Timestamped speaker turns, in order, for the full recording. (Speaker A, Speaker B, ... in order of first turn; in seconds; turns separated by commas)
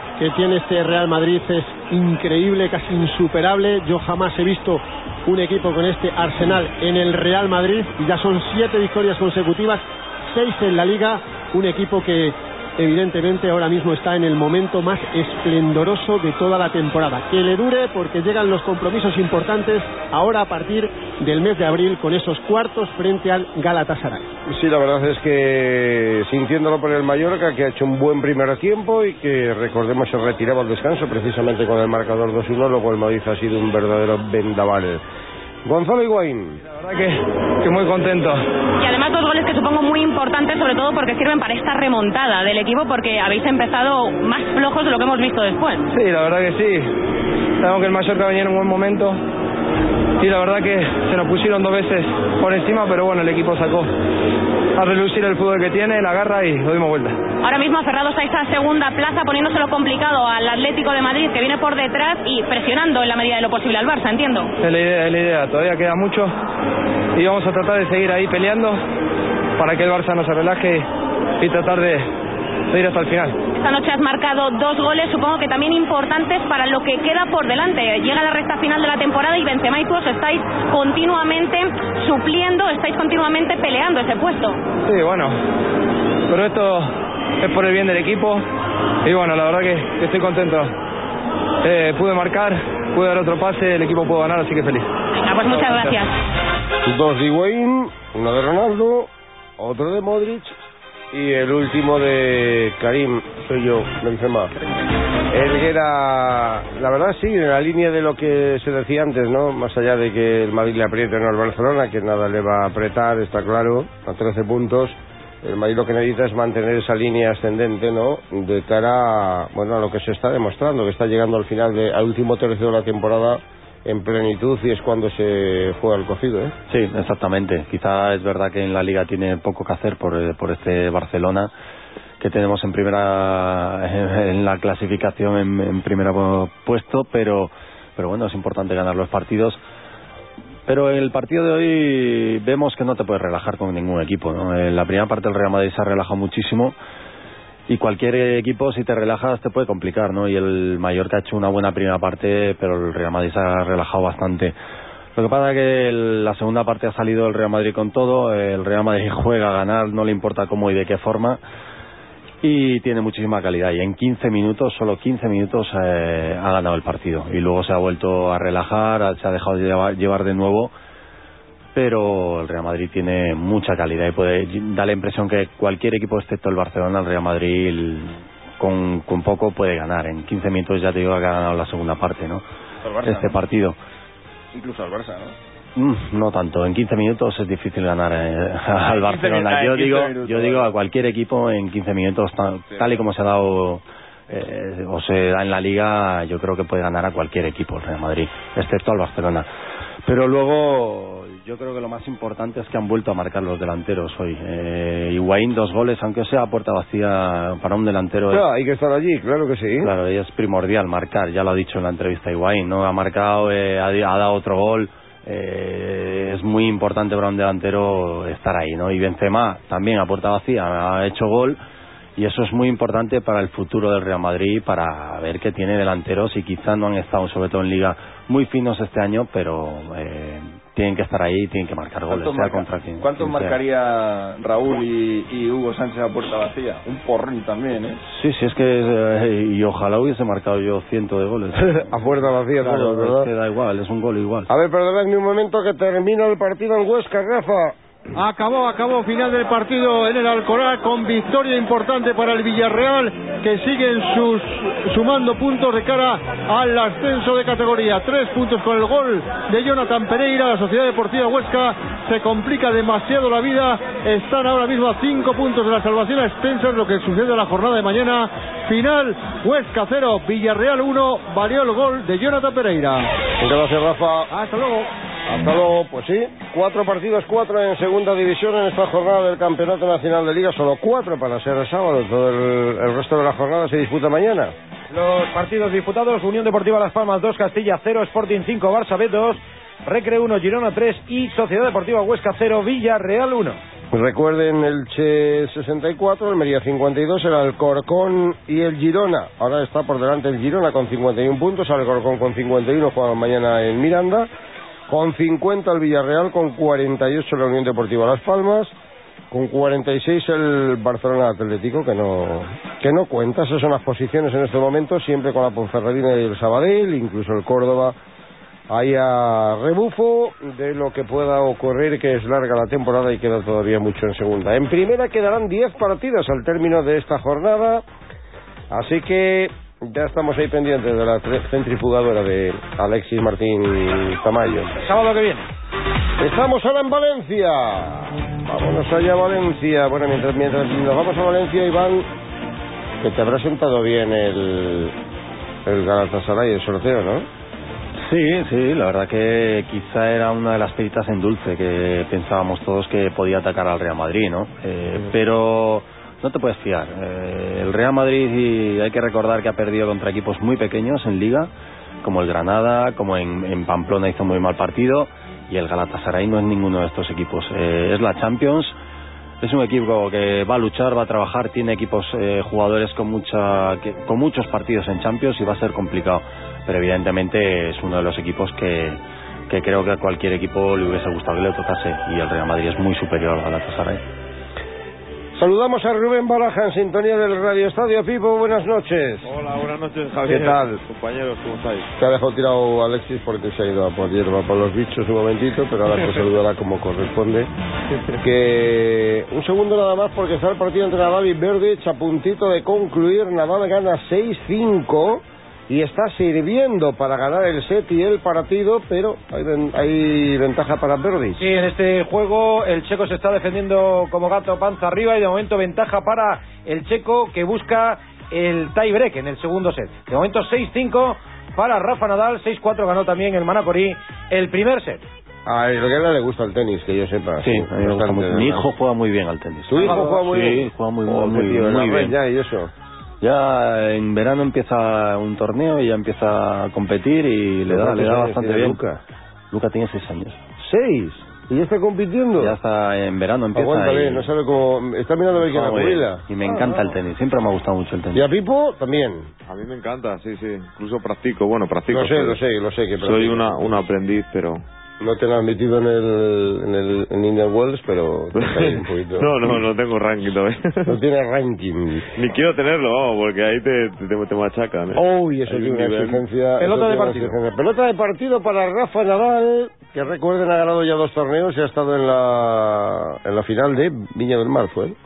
Speaker A: 0.2-24.2, Speaker B: 24.5-35.0, Speaker B: 35.6-36.6, Speaker C: 36.7-38.4, Speaker D: 38.8-45.9, Speaker C: 45.9-46.9, Speaker C: 47.6-49.2, Speaker C: 50.2-53.9, Speaker C: 54.8-57.2, Speaker D: 57.4-64.5, Speaker C: 64.6-66.3, Speaker C: 67.2-68.8, Speaker C: 69.6-70.9, Speaker C: 71.4-72.1, Speaker C: 72.7-73.4, Speaker D: 73.5-84.6, Speaker C: 84.8-85.4, Speaker C: 86.3-88.4, Speaker C: 89.0-90.7, Speaker C: 91.6-94.9, Speaker D: 95.1-96.1, Speaker C: 95.5-95.9, Speaker B: 96.8-100.6, Speaker B: 101.1-104.5, Speaker B: 105.3-126.5, Speaker E: 126.7-131.5, Speaker E: 132.2-139.6, Speaker E: 140.7-146.8, Speaker E: 147.7-154.5, Speaker E: 155.2-161.4, Speaker E: 162.4-170.7, Speaker E: 171.7-182.4, Speaker F: 182.8-183.4, Speaker E: 183.0-183.8, Speaker F: 184.5-185.3, Speaker E: 185.8-199.5, Speaker F: 188.9-190.7, Speaker E: 200.0-208.4, Speaker B: 208.3-209.9, Speaker E: 209.8-221.6, Speaker E: 222.2-233.6, Speaker F: 232.1-238.0, Speaker E: 238.1-241.9, Speaker B: 241.6-243.3, Speaker E: 242.6-244.5, Speaker B: 244.5-247.7, Speaker G: 248.2-273.1, Speaker B: 273.4-274.3, Speaker G: 274.3-274.9, Speaker B: 275.3-284.5, Speaker H: 284.9-293.6, Speaker B: 293.9-304.3, Speaker B: 304.9-308.7, Speaker B: 309.3-317.9, Speaker B: 318.7-327.8, Speaker B: 328.7-334.7, Speaker H: 334.8-335.5, Speaker B: 336.2-342.1, Speaker B: 343.0-344.9, Speaker B: 345.6-347.3, Speaker E: 348.0-361.5, Speaker E: 362.0-368.8, Speaker E: 369.4-384.0, Speaker B: 385.4-389.3, Speaker I: 389.2-391.9, Speaker B: 390.2-390.8, Speaker B: 392.0-397.5, Speaker B: 398.2-411.4, Speaker H: 411.4-425.0, Speaker B: 425.4-428.6, Speaker E: 427.4-432.1, Speaker B: 429.7-432.7, Speaker E: 433.2-438.8, Speaker B: 437.7-439.0, Speaker E: 439.5-440.4, Speaker B: 440.6-442.5, Speaker E: 442.4-444.3, Speaker B: 443.5-446.8, Speaker E: 445.4-448.2, Speaker B: 448.1-449.3, Speaker I: 449.5-452.4, Speaker B: 451.9-453.9, Speaker I: 453.0-454.6, Speaker B: 455.0-459.6, Speaker I: 458.3-460.9, Speaker B: 460.9-462.1, Speaker I: 462.1-466.2, Speaker B: 464.9-474.9, Speaker H: 466.6-467.2, Speaker I: 466.9-467.3